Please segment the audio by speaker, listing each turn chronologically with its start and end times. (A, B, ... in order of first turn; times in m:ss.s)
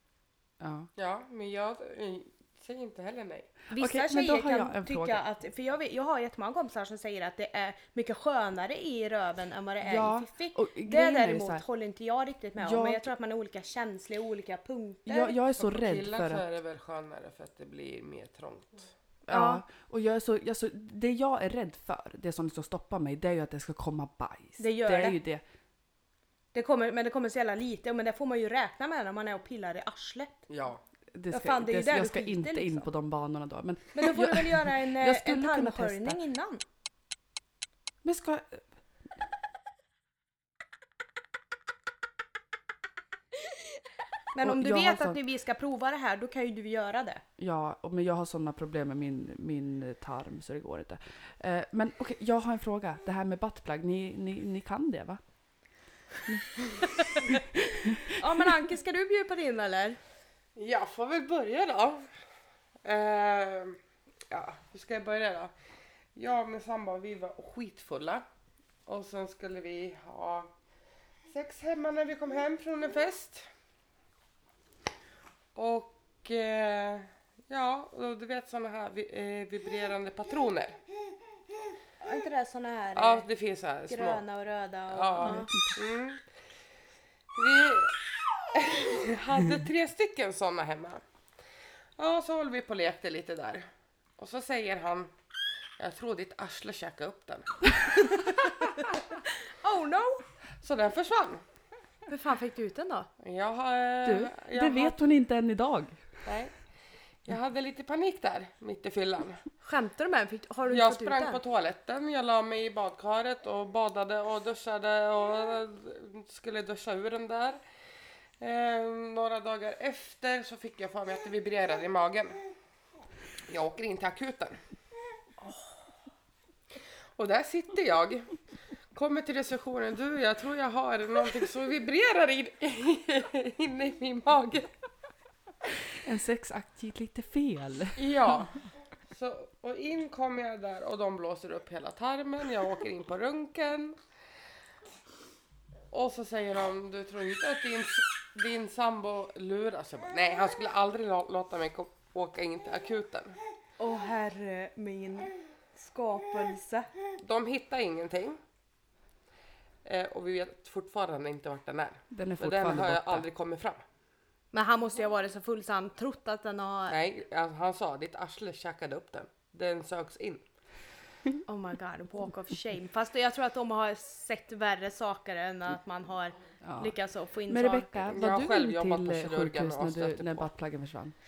0:00.6-0:00.9 A
0:01.0-0:03.5 B
0:03.7-0:15.4 C
0:03.8-0:05.2 A
0:09.8-0:11.6 A
0:12.6-0:13.1 A
0:15.1-0:16.4 A
0:15.6-0:18.9 B
0:19.3-0:19.6 C
0:19.3-0:25.4 A
0:24.6-0:25.2 C
0:26.5-0:30.4 C
0:30.5-0:30.8 B
0:31.1-0:36.2 A
0:31.3-0:32.9 C
0:33.9-0:36.6 C
0:38.0-0:38.6 A
0:44.3-0:47.2 C
0:44.4-0:45.2 A
0:47.4-0:55.2 A
0:56.3-0:58.2 A
0:57.7-1:00.0 C
1:00.6-1:02.1 B
1:02.8-1:03.8 B
1:04.3-1:05.5 B
1:06.2-1:08.2 B
1:08.9-1:10.5 B
1:11.3-1:13.5 B
1:15.6-1:20.8 B
1:22.0-1:23.3 C
1:23.0-1:24.2 B
1:23.9-1:25.5 C
1:24.9-1:26.3 B
1:25.2-1:25.8 A
1:27.3-1:31.0 B
1:32.0-1:35.1 B
1:35.8-1:38.8 B
1:38.8-1:40.2 C
1:40.6-1:41.4 B
1:42.1-1:43.1 C
1:43.2-1:45.1 B
1:44.0-1:46.2 A
1:46.2-1:46.6 B
1:47.2-1:49.4 B
1:49.6-1:51.4 C
1:50.7-1:57.6 B
1:58.4-2:02.4 B
2:03.5-2:04.6 B
2:07.2-2:08.4 B
2:08.9-2:14.7 B
2:16.0-2:18.5 A
2:18.0-2:24.0 B
2:25.9-2:33.4 B
2:33.8-2:36.9 C
2:37.2-2:38.4 B
2:39.8-2:43.8 B
2:42.1-2:43.3 A
2:44.5-2:47.0 C
2:46.9-2:50.5 B
2:51.5-2:58.1 C
2:56.6-2:56.9 A
2:57.5-3:01.1 A
2:58.1-3:00.5 B